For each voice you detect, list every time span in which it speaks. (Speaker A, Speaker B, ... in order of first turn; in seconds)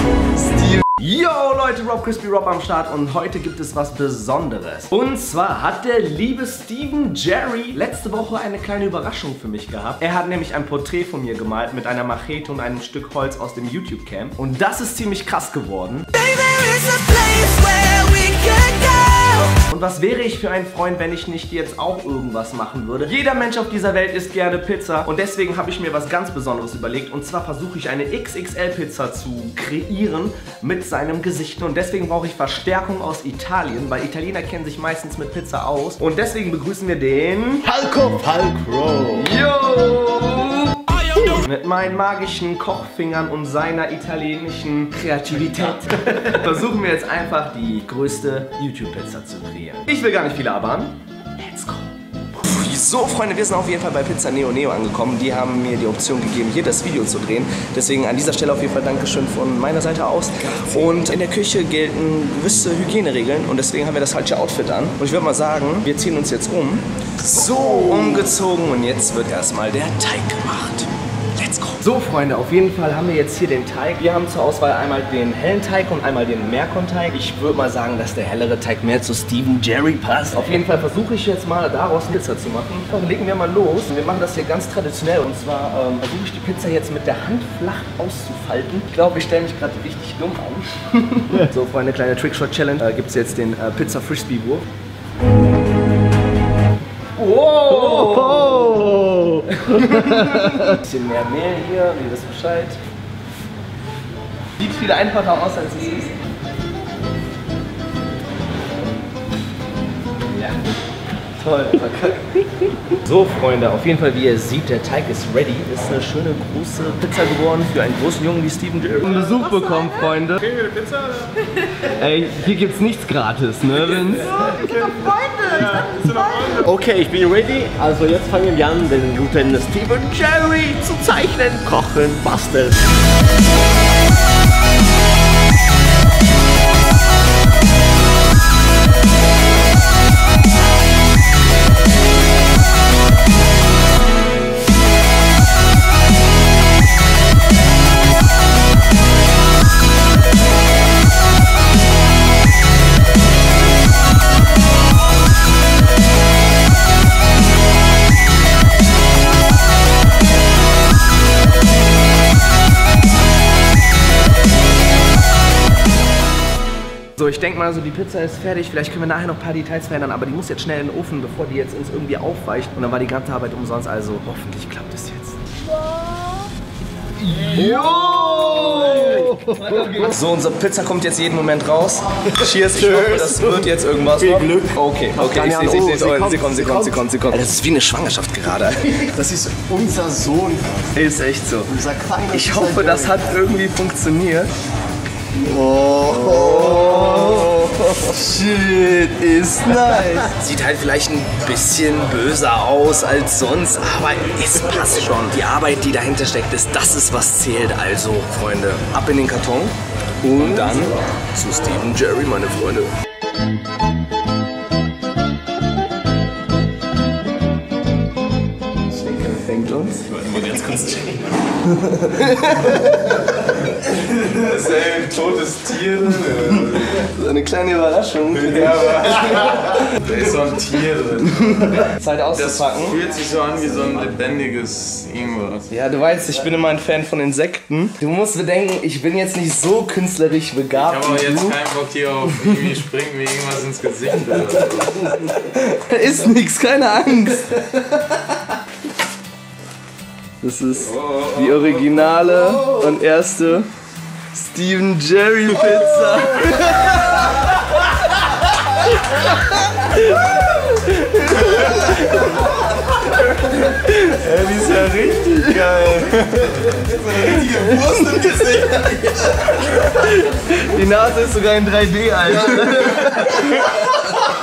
Speaker A: 0.4-16.2, 19.6-37.7, 39.1-94.7, 97.2-98.9, 99.4-102.8, 104.6-106.1, 110.3-110.6, 111.4-120.7, 121.8-124.6, 167.2-175.6, 177.2-189.1, 190.9-194.5, 196.0-212.9, 218.9-220.2, 221.6-223.3, 226.2-230.0, 231.5-233.0, 235.7-241.6, 245.0-248.4, 250.4-253.7, 254.3-265.8, 267.0-273.9
Speaker B: 16.1-19.6, 37.7-39.3, 97.7-100.2, 120.7-121.5, 124.3-132.9, 175.8-176.5, 177.3-180.1, 182.4-187.0, 189.1-190.9, 191.7-193.2, 195.3-197.7, 220.2-221.3
Speaker C: 223.7-227.1, 228.4-235.7, 240.7-245.2, 264.2-269.0, 272.6-273.1